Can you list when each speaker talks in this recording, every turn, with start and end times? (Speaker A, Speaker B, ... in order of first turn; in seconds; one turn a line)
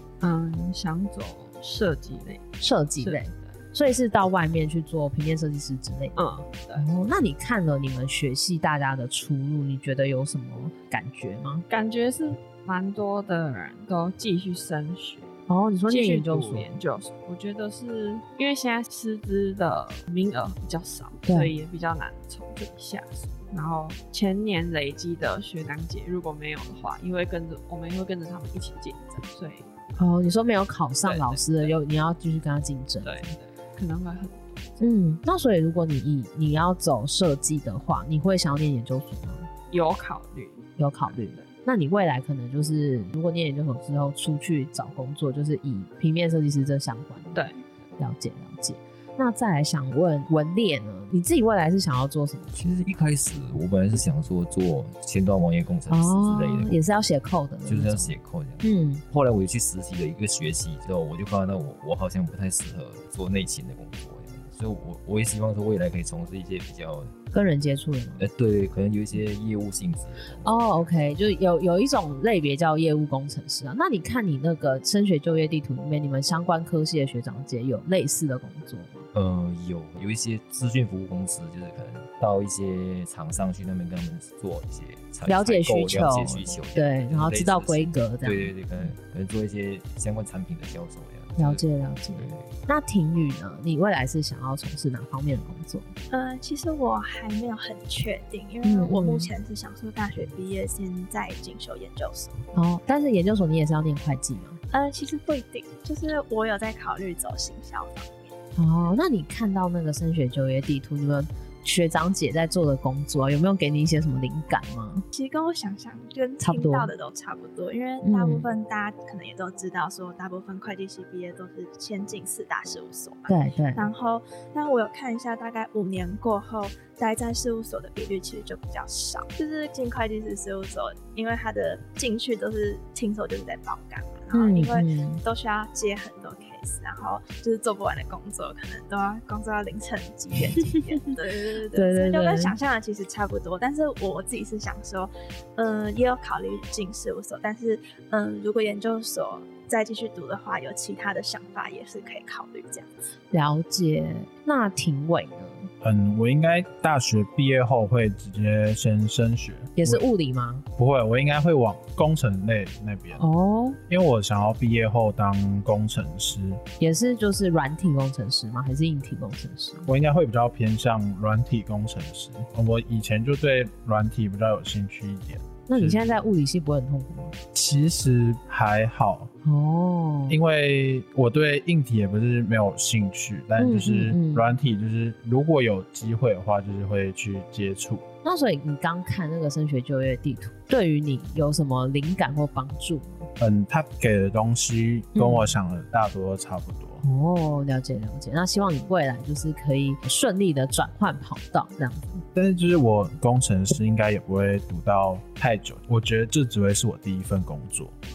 Speaker A: 0.2-3.5
Speaker B: 2.6-11.6
Speaker A: 6.2-6.9
Speaker A: 11.7-15.3
Speaker B: 15.5-16.7
Speaker A: 15.9-29.7
Speaker B: 21.3-21.5
Speaker B: 30.0-33.2
Speaker A: 31.0-31.7
Speaker A: 33.0-34.8
Speaker B: 34.8-39.5
Speaker A: 39.7-41.5
Speaker B: 40.8-47.5
Speaker A: 47.3-47.6
Speaker B: 48.0-52.7
Speaker C: 52.5-56.8
Speaker B: 55.9-59.0
Speaker C: 57.7-67.2
Speaker B: 67.3-68.2
Speaker C: 68.2-71.0
Speaker B: 70.4-79.1
Speaker C: 79.1-92.6
Speaker B: 85.3-88.5
Speaker B: 91.4-95.9
Speaker D: 96.1-102.4
Speaker B: 98.6-99.3
Speaker B: 102.5-104.6
Speaker D: 104.7-108.3
Speaker B: 108.6-115.1
Speaker D: 115.1-152.9
Speaker B: 116.4-116.9
Speaker B: 118.0-118.5
Speaker B: 123.3-123.9
Speaker B: 134.3-135.2
Speaker B: 141.7-142.6
Speaker B: 153.3-155.7
Speaker E: 155.8-160.0
Speaker B: 159.8-160.7
Speaker E: 160.8-163.2
Speaker B: 163.2-163.8
Speaker E: 163.9-166.6
Speaker B: 166.8-169.9
Speaker E: 169.9-176.2
Speaker B: 175.7-177.3
Speaker E: 177.5-179.3
Speaker B: 179.4-180.4
Speaker E: 180.3-188.0
Speaker B: 183.6-184.5
Speaker B: 188.2-193.3
Speaker E: 193.4-197.0
Speaker B: 195.2-195.5
Speaker B: 197.0-202.2
Speaker E: 202.3-207.9